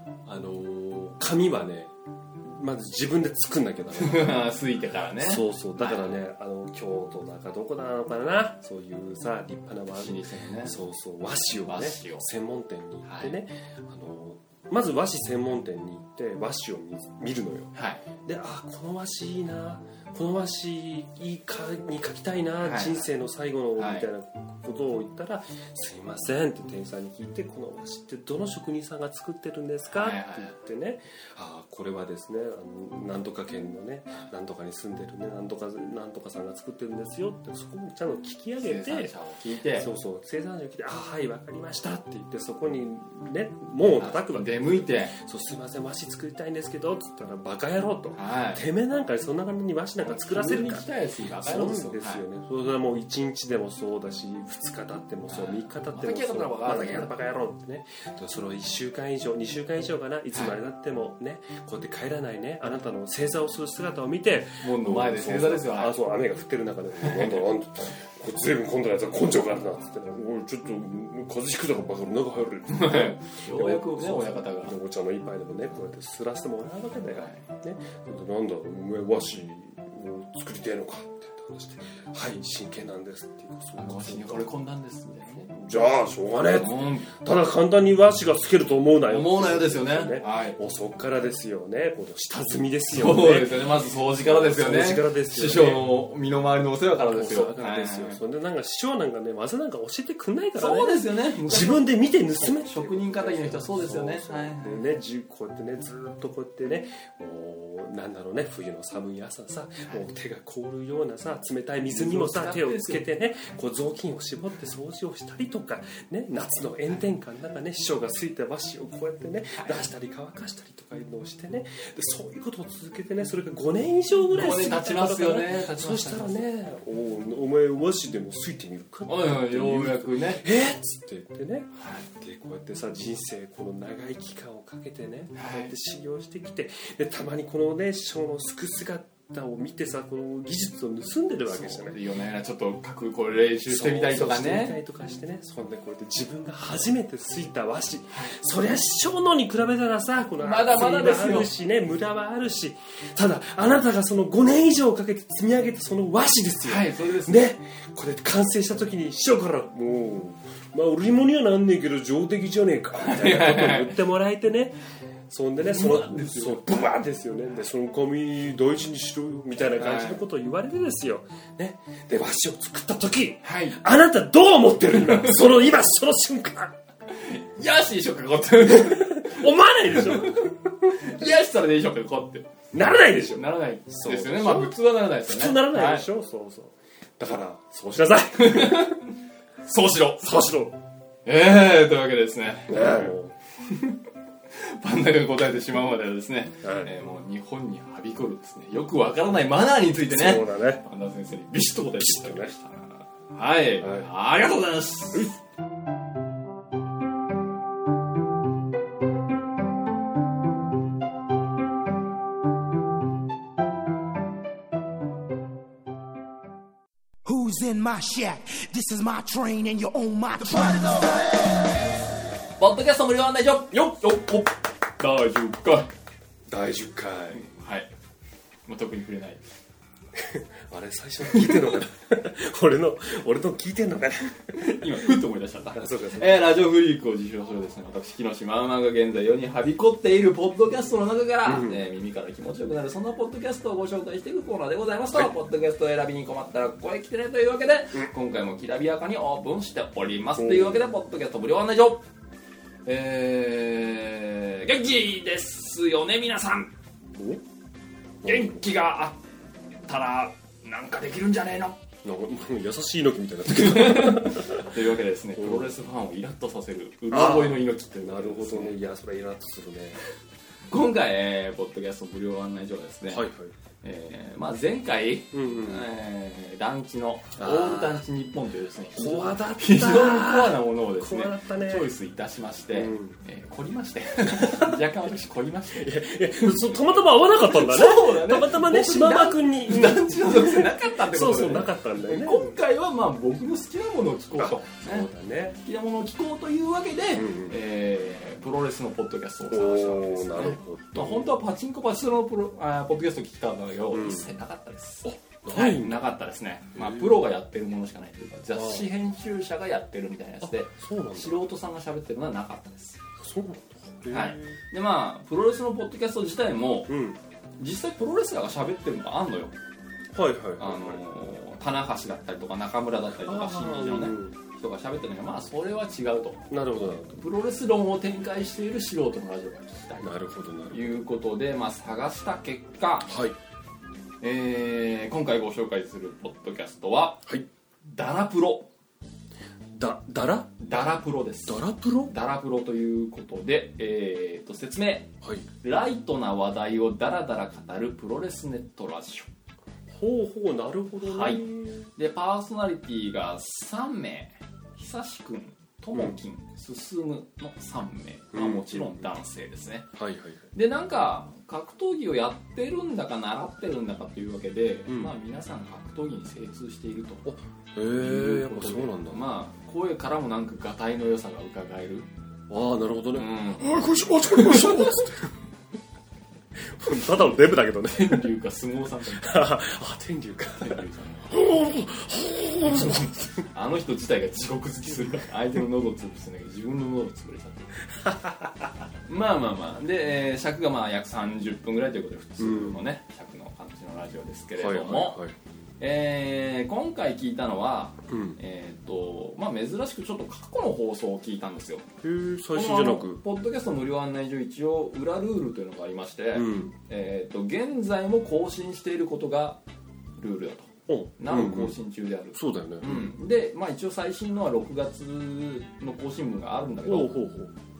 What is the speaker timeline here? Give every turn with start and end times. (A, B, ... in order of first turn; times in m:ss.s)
0:00.2-0:04.5 A
0:04.0-0:06.2 B
0:05.2-0:39.1 A
0:09.9-0:10.8 B
0:11.6-0:12.2 B
0:13.0-0:13.3 B
0:17.7-0:18.0 B
0:22.6-0:23.1 B
0:23.8-0:24.1 B
0:29.9-0:30.5 B
0:38.6-0:39.9 B
0:39.7-0:50.9 A
0:44.0-0:45.2 B
0:48.1-0:48.6 B
0:50.0-0:52.2 B
0:51.4-1:24.5 A
0:55.3-0:57.1 B
1:04.6-1:05.9 B
1:07.0-1:07.4 B
1:12.7-1:14.8 B
1:17.1-1:17.4 B
1:23.8-1:25.5 B
1:25.3-1:35.9 A
1:26.5-1:27.1 B
1:29.1-1:30.6 B
1:32.9-1:38.2 B
1:36.9-2:22.0 A
1:40.6-1:44.8 B
1:51.9-1:53.1 B
2:04.3-2:06.5 B
2:09.1-2:10.4 B
2:11.8-2:12.0 B
2:15.3-2:15.7 B
2:21.5-2:24.8 B
2:23.6-2:56.8 A
2:28.1-2:28.4 B
2:30.4-2:31.5 B
2:36.6-2:37.5 B
2:43.0-2:44.0 B
2:45.6-2:46.9 B
2:49.7-2:50.2 B
2:53.4-2:53.8 B
2:54.9-2:55.6 B
2:57.1-3:02.5 B
2:58.7-3:01.3 A
3:02.7-3:09.0 A
3:03.3-3:06.1 B
3:08.4-3:09.0 B
3:09.6-3:10.3 B
3:10.2-3:10.8 A
3:11.2-3:13.1 B
3:12.7-3:13.4 A
3:14.5-3:25.3 B
3:16.6-3:16.9 A
3:20.1-3:20.8 A
3:22.0-3:22.5 A
3:23.8-3:24.1 A
3:37.2-3:41.5 C
3:42.6-3:45.9 B
3:46.5-3:47.5 A
3:47.3-3:47.9 B
3:48.7-3:49.4 B
3:50.1-3:55.1 A
3:51.3-3:51.8 B
3:54.5-4:12.0 B
3:55.7-3:56.4 A
4:01.4-4:01.8 A
4:10.4-4:10.8 A
4:12.8-4:16.7 B
4:17.1-4:17.4 A
4:18.2-4:18.6 A
4:18.2-4:19.2 B
4:19.9-4:21.8 B
4:22.0-4:24.8 A
4:23.5-4:28.8 B
4:25.3-4:25.7 A
4:27.1-4:30.0 A
4:30.7-4:33.3 B
4:33.1-4:33.5 A
4:33.8-5:13.0 B
4:35.3-4:35.9 A
4:37.4-4:38.0 A
4:38.9-4:41.9 A
4:42.7-4:43.2 A
4:44.3-4:44.8 A
4:45.7-4:52.5 A
4:54.4-4:55.6 A
4:57.1-4:57.6 A
4:59.5-5:01.3 A
5:03.9-5:04.3 A
5:05.0-5:06.0 A
5:06.7-5:07.2 A
5:08.5-5:08.9 A
5:10.4-5:11.4 A
5:13.2-5:14.6 A
5:14.1-5:16.9 B
5:16.9-5:17.2 A
5:17.6-5:19.5 B
5:20.1-5:21.0 A
5:20.6-5:26.5 B
5:23.2-5:24.4 A
5:26.5-5:27.2 A
5:27.0-5:30.1 B
5:30.0-5:31.0 A
5:30.7-5:33.1 B
5:33.1-5:33.4 A
5:34.2-5:37.2 B
5:37.8-5:38.7 B
5:39.7-5:40.6 A
5:40.6-5:49.3 B
5:41.5-5:42.1 A
5:45.2-5:45.5 A
5:49.9-5:51.9 A
5:51.0-5:51.4 B
5:52.0-5:59.9 B
5:58.3-5:59.1 A
5:59.9-6:00.5 A
6:00.5-6:07.3 B
6:04.9-6:05.1 A
6:07.2-6:09.2 A
6:08.0-6:12.1 B
6:12.5-6:15.3 A
6:13.1-6:13.7 B
6:14.3-6:15.0 B
6:16.8-6:18.3 A
6:17.9-6:19.5 B
6:19.2-6:23.5 A
6:20.5-6:21.3 B
6:23.5-6:27.8 B
6:27.9-6:28.7 A
6:29.1-6:35.2 B
6:32.4-6:32.8 A
6:34.6-6:35.4 A
6:35.8-6:41.9 B
6:38.1-6:38.4 A
6:42.0-6:43.2 A
6:42.5-6:49.6 B
6:46.3-6:46.7 A
6:50.2-6:57.2 B
6:50.9-6:51.8 A
6:52.3-6:53.1 A
6:56.8-6:57.5 A